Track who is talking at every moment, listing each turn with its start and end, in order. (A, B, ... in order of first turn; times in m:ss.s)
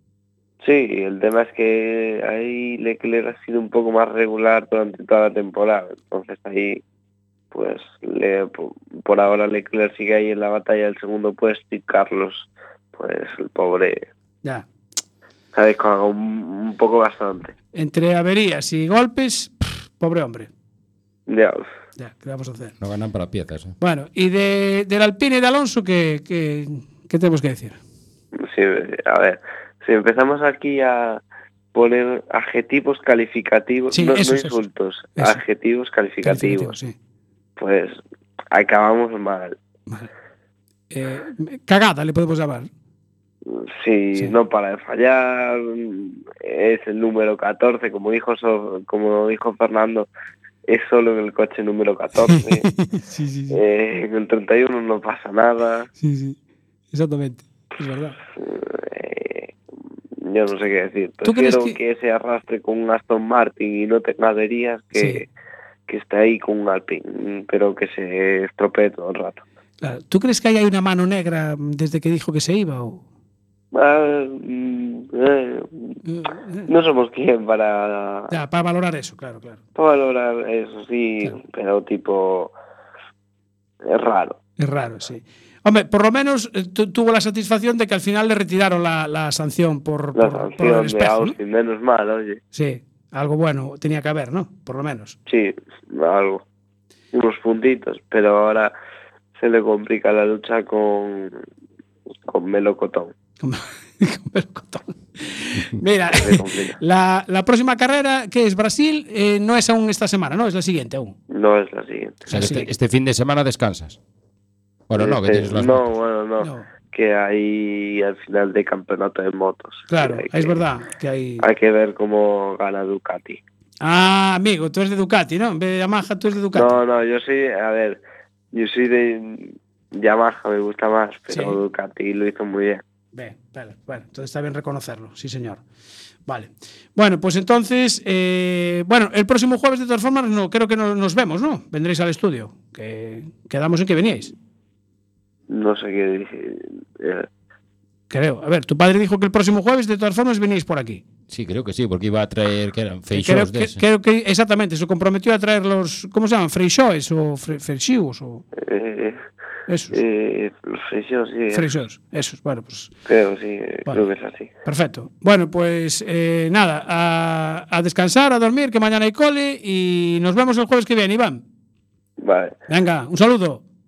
0:00.6-0:06.8 A
0:07.5-0:14.1 A
0:15.5-0:17.5 A
0:17.7-0:20.5 B
0:21.3-0:21.6 A
0:22.0-0:22.7 B
0:22.8-0:23.8 C
0:23.8-0:27.8 B
0:28.4-0:31.2 A
0:31.7-0:36.7 A
0:33.9-0:34.6 B
0:35.2-0:35.4 B
0:36.2-0:36.9 B
0:37.6-0:38.0 A
0:38.5-0:39.6 A
0:40.9-0:42.7 B
0:43.5-0:50.1 A
0:50.7-0:52.7 A
0:52.3-0:53.6 B
0:53.5-0:55.9 A
0:56.0-0:56.4 B
0:56.9-0:58.2 B
0:58.4-0:59.5 A
1:00.2-1:05.3 A
1:01.2-1:01.8 B
1:05.0-1:05.2 B
1:05.9-1:09.4 A
1:09.8-1:13.0 B
1:13.7-1:16.0 A
1:16.0-1:16.7 B
1:16.7-1:18.3 A
1:18.3-1:19.6 B
1:19.8-1:22.5 A
1:23.8-1:24.4 A
1:24.6-1:31.3 B
1:30.1-1:32.4 A
1:32.5-1:35.2 B
1:35.3-1:36.4 A
1:37.1-1:38.7 A
1:39.4-1:41.4 A
1:42.3-1:43.1 A
1:43.4-1:51.1 B
1:46.1-1:46.8 A
1:51.3-1:52.3 A
1:52.3-1:52.7 B
1:52.3-1:54.0 C
1:54.9-1:55.9 C
1:55.0-2:00.6 A
1:56.4-1:56.7 B
1:59.9-2:01.4 B
2:01.4-2:03.4 A
2:03.8-2:06.8 B
2:06.5-2:08.0 A
2:08.5-2:12.8 A
2:11.3-2:11.6 B
2:13.1-2:15.6 B
2:16.3-2:24.3 B
2:25.5-2:27.3 A
2:28.1-2:31.0 B
2:31.3-2:33.8 C
2:33.1-2:38.4 B
2:38.6-2:39.2 A
2:39.7-2:40.0 B
2:39.9-2:41.7 A
2:41.5-2:42.9 B
2:43.0-2:44.5 A
2:44.6-2:51.4 B
2:52.2-2:52.6 A
2:52.7-2:53.6 B